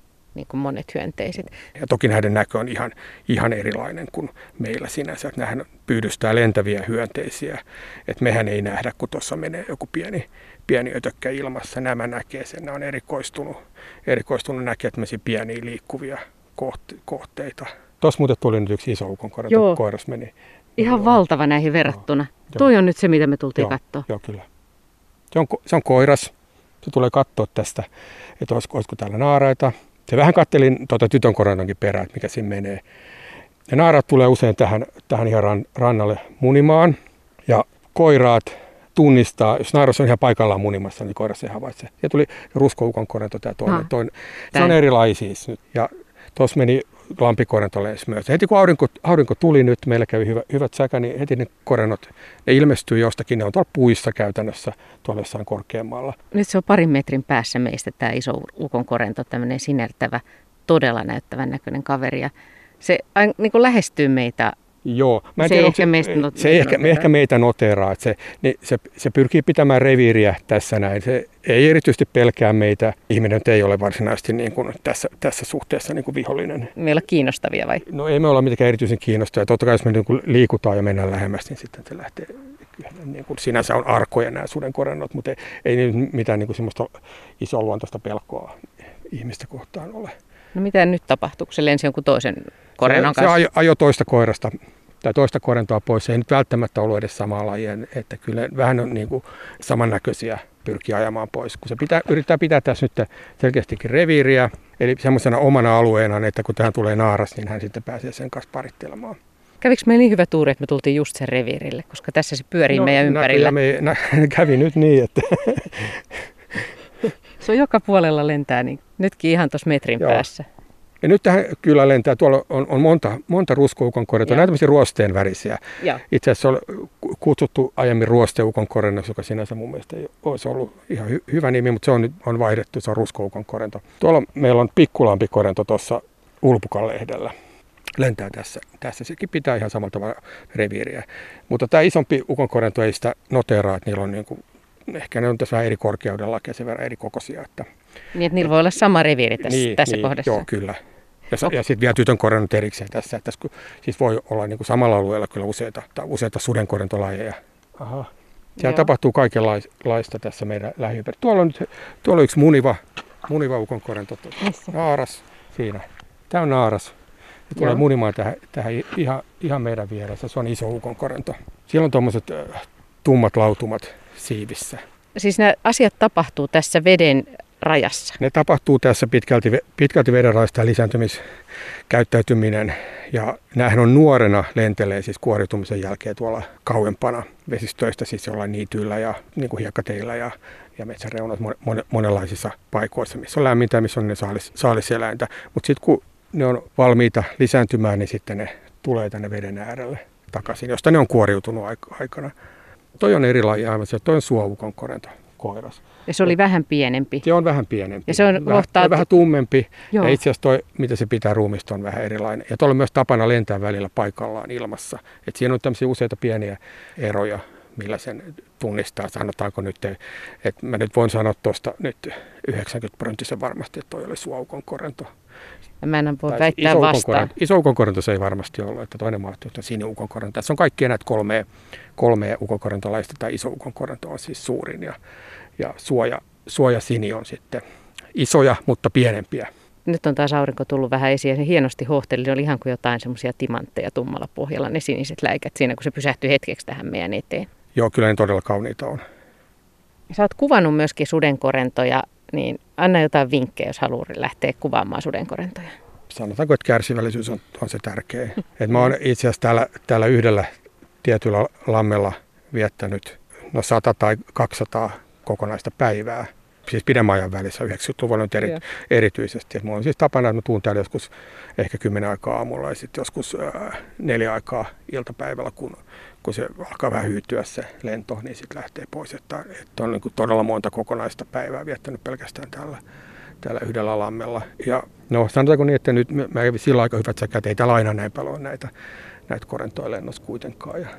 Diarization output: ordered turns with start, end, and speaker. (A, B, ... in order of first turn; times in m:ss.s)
0:00.3-0:01.5 A
0:01.7-0:21.2 B
0:19.5-0:19.8 A
0:20.8-0:24.0 A
0:23.6-0:24.4 B
0:25.3-0:27.9 B
0:28.4-0:32.8 B
0:33.7-0:37.0 B
0:37.5-0:56.2 B
0:56.3-1:04.6 A
1:04.8-1:16.7 B
1:05.4-1:07.0 A
1:16.8-1:17.8 A
1:17.8-1:30.1 B
1:30.5-1:33.4 A
1:32.8-1:49.2 B
1:49.6-1:53.5 A
1:52.7-1:56.0 B
1:57.4-2:00.4 A
2:00.0-2:00.2 B
2:01.0-2:17.3 B
2:18.0-2:27.7 B
2:28.1-2:30.4 A
2:29.4-2:30.8 B
2:31.3-2:46.9 B
2:38.6-2:38.9 A
2:44.4-2:44.7 A
2:47.5-2:54.8 B
2:47.6-2:47.8 A
2:55.1-2:58.2 A
2:58.2-3:01.2 B
3:01.9-3:22.3 B
3:23.0-3:26.3 B
3:26.1-3:27.2 A
3:27.2-3:45.1 B
3:28.1-3:29.0 A
3:29.9-3:30.2 A
3:45.8-3:47.3 A
3:46.3-3:55.0 B
3:55.6-3:57.6 B
3:58.1-3:59.5 B
3:59.8-4:07.5 A
4:07.7-4:09.0 B
4:10.1-4:15.7 A
4:16.1-4:20.5 B
4:21.0-4:42.8 B
4:43.4-4:48.7 B
4:49.3-4:50.9 B